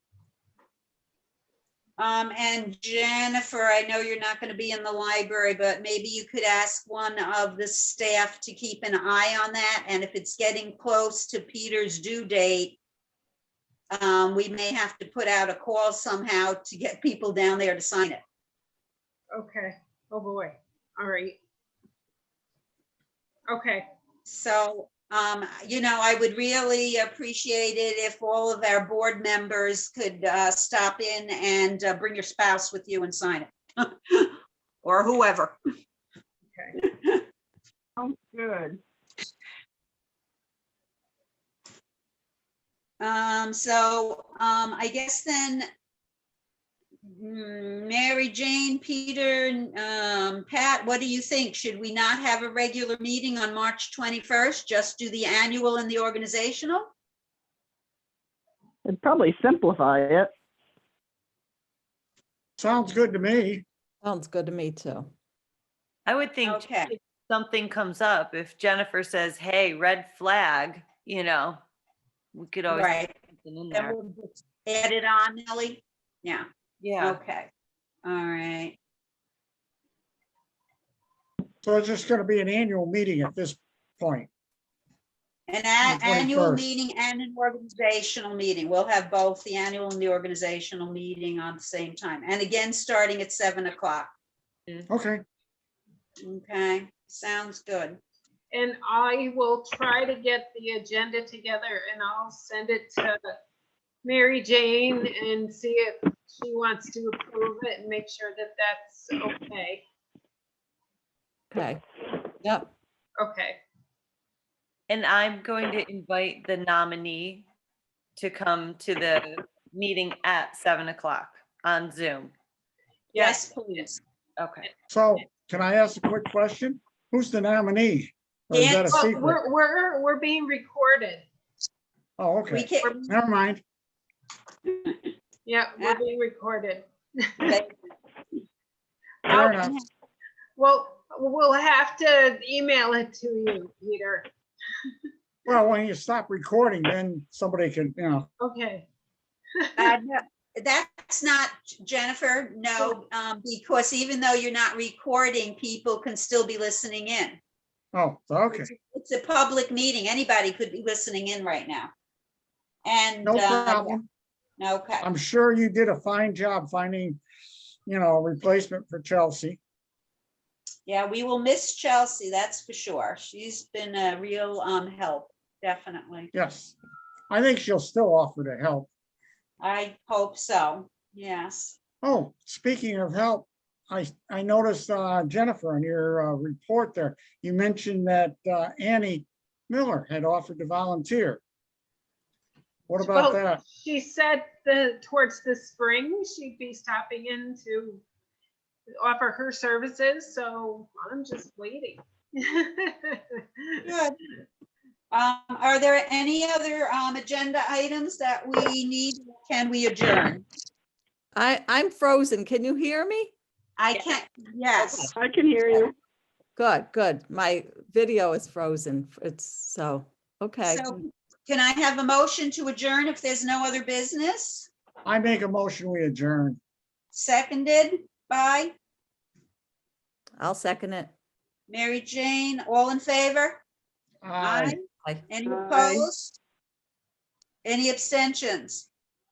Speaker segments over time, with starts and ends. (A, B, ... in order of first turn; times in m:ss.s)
0:02.0-0:12.8 A
0:13.9-0:18.2 A
0:19.3-0:21.4 B
0:23.5-0:23.9 B
0:24.2-0:35.6 A
0:36.8-0:37.2 A
0:38.0-0:38.8 C
0:43.0-0:45.7 A
0:47.1-0:56.9 A
0:58.8-1:00.3 C
1:02.6-1:03.6 D
1:04.0-1:05.1 E
1:06.0-1:11.6 F
1:06.4-1:06.9 A
1:12.3-1:13.9 F
1:12.7-1:13.1 A
1:13.7-1:16.5 A
1:16.8-1:17.2 F
1:17.0-1:17.5 A
1:18.0-1:18.8 A
1:21.6-1:24.3 D
1:25.5-1:34.1 A
1:25.8-1:26.6 D
1:34.9-1:35.2 D
1:36.2-1:38.0 A
1:38.5-1:43.4 B
1:44.0-1:49.8 B
1:51.5-1:51.8 E
1:52.4-1:52.7 E
1:53.2-1:53.6 B
1:54.9-1:57.5 F
1:58.2-2:02.3 F
2:03.1-2:03.9 B
2:03.1-2:04.0 A
2:04.4-2:04.7 F
2:04.9-2:09.4 D
2:08.5-2:09.3 A
2:08.9-2:11.2 B
2:12.2-2:13.6 D
2:12.5-2:13.1 A
2:14.7-2:15.0 A
2:15.4-2:17.6 B
2:17.5-2:17.8 A
2:19.3-2:19.8 D
2:19.3-2:19.8 A
2:20.6-2:25.0 B
2:25.5-2:28.3 D
2:28.4-2:28.9 B
2:29.5-2:29.9 B
2:29.8-2:37.4 A
2:37.9-2:38.7 D
2:38.5-2:41.9 A
2:42.8-2:44.0 A
2:43.2-2:44.1 D
2:44.6-2:45.1 A
2:45.0-2:47.2 D
2:47.8-2:49.6 D
2:50.8-2:56.3 A
2:56.3-2:56.8 D
2:57.3-2:58.9 D
2:59.6-3:01.8 A
3:02.0-3:11.4 D
3:12.9-3:13.6 D
3:13.0-3:18.0 B
3:18.9-3:23.8 B
3:23.8-3:24.2 A
3:25.1-3:30.4 A
3:31.3-3:33.3 E
3:33.8-3:35.1 A
3:34.8-3:35.9 C
3:36.6-3:41.0 E
3:40.7-3:44.7 A
3:45.0-3:46.6 D
3:47.1-3:48.7 A
3:50.4-3:51.1 E
3:51.7-3:53.6 A
3:54.2-3:54.8 D
3:54.4-3:56.4 A
3:55.0-3:55.9 E
3:57.6-3:58.9 A